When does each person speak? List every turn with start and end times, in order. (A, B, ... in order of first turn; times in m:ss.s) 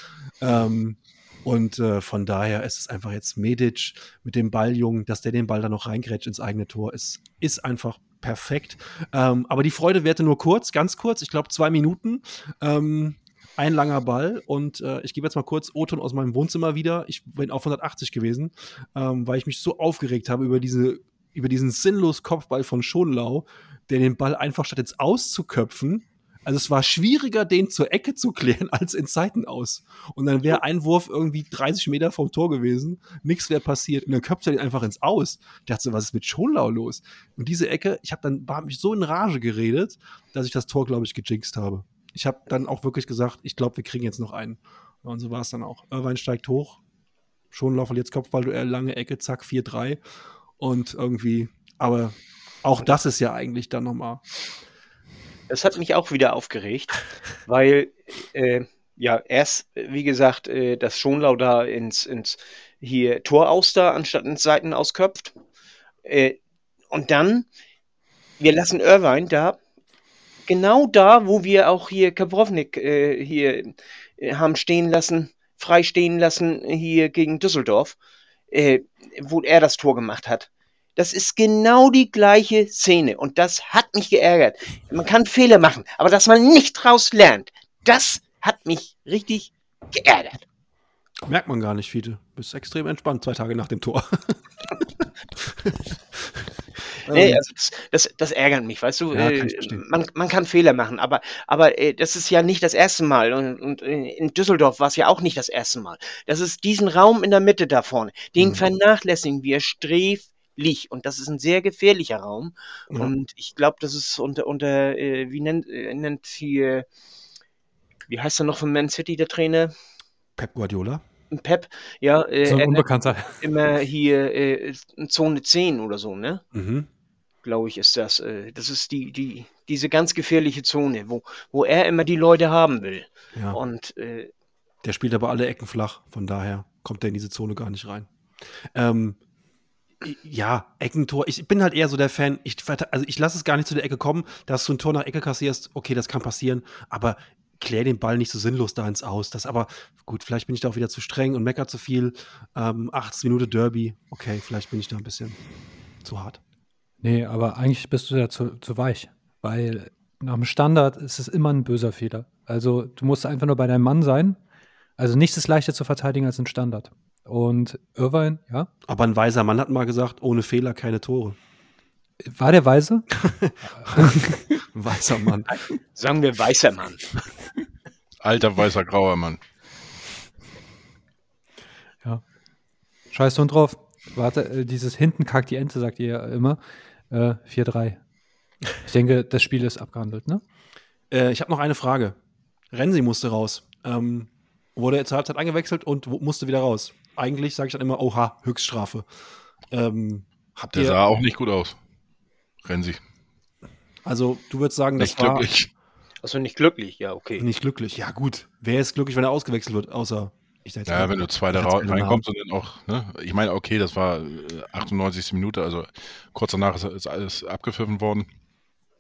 0:00.4-0:46.8 A
0:47.5-0:50.0 A
0:50.6-0:54.2 A
0:55.5-1:05.3 B
1:06.0-1:06.4 B
1:06.9-1:07.5 B
1:08.4-1:09.6 B
1:10.4-1:18.0 B
1:18.5-1:30.4 B
1:31.2-1:36.4 A
1:37.0-1:37.4 A
1:37.1-1:56.8 B
1:39.1-1:39.8 A
1:48.4-1:48.6 A
1:58.1-1:59.7 B
2:00.4-2:01.0 A
2:01.3-2:06.4 B
2:02.4-2:03.4 C
2:06.5-2:06.9 A
2:07.4-2:14.3 B
2:13.3-2:13.6 A
2:14.8-2:18.1 A
2:18.7-2:19.2 A
2:20.0-2:35.4 A
2:36.0-2:36.4 A
2:37.0-2:44.4 C
2:45.0-2:48.7 C
2:48.9-2:51.4 A
2:52.2-2:53.1 C
2:53.3-2:55.5 A
2:53.8-2:54.5 C
2:55.9-2:57.1 B
2:58.2-2:59.4 D
3:03.1-3:06.6 C
3:07.1-3:08.0 C
3:08.8-3:10.4 C
3:11.1-3:12.2 A
3:12.7-3:19.0 A
3:19.7-3:21.0 A
3:20.7-3:21.8 D
3:22.6-3:23.0 D
3:24.0-3:25.5 A
3:25.0-3:25.7 D
3:26.2-3:27.5 B
3:27.4-3:32.2 A
3:30.9-3:38.3 D